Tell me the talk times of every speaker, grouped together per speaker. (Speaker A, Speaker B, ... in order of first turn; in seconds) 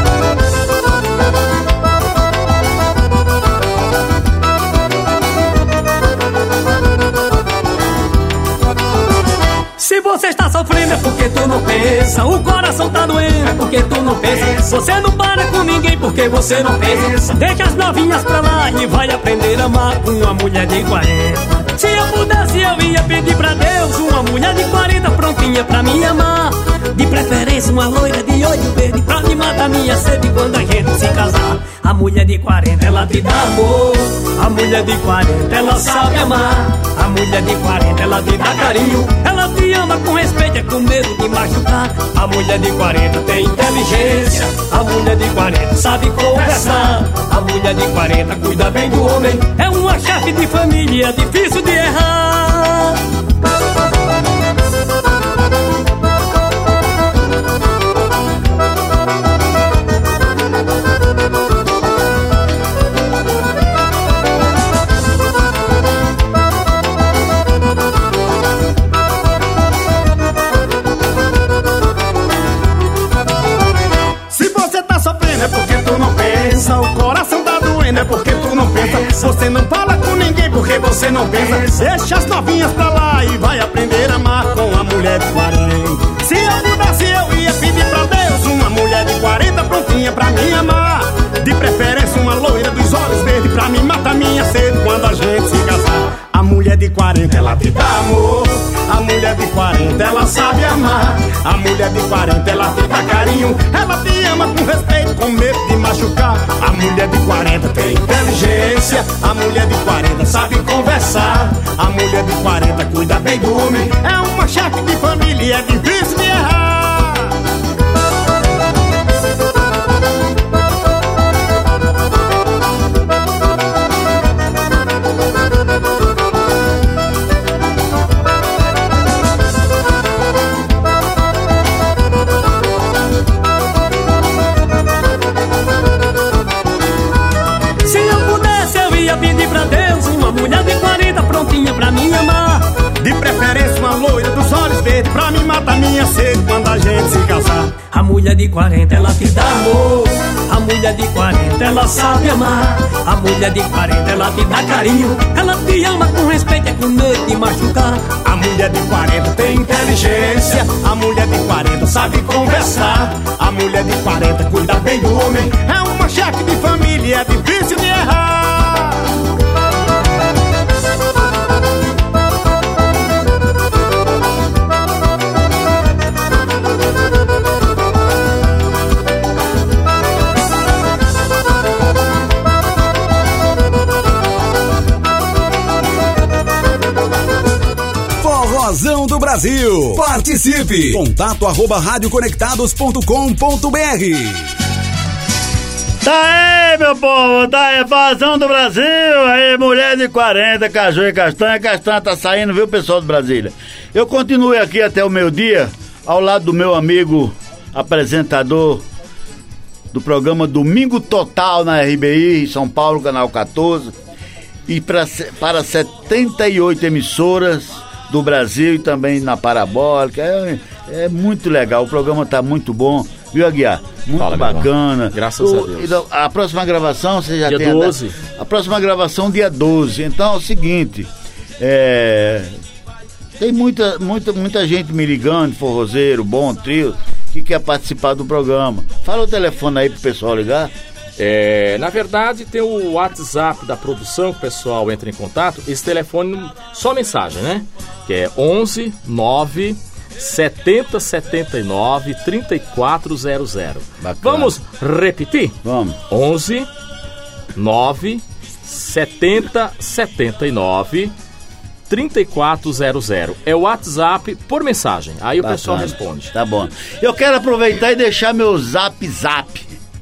Speaker A: 9.8-53.0, 137.8-142.7, 147.9-158.1
Speaker B: 74.3-117.3, 143.0-147.7, 158.2-169.1
Speaker C: 188.2-194.5
Speaker D: 196.0-208.8, 209.9-213.9, 214.7-231.1, 231.6-232.5, 233.4-240.7, 254.0-254.6, 255.6-256.0, 265.4-269.8
Speaker E: 224.2-226.0, 227.4-228.2, 241.2-255.6, 256.1-256.7, 257.6-261.1, 261.9-266.3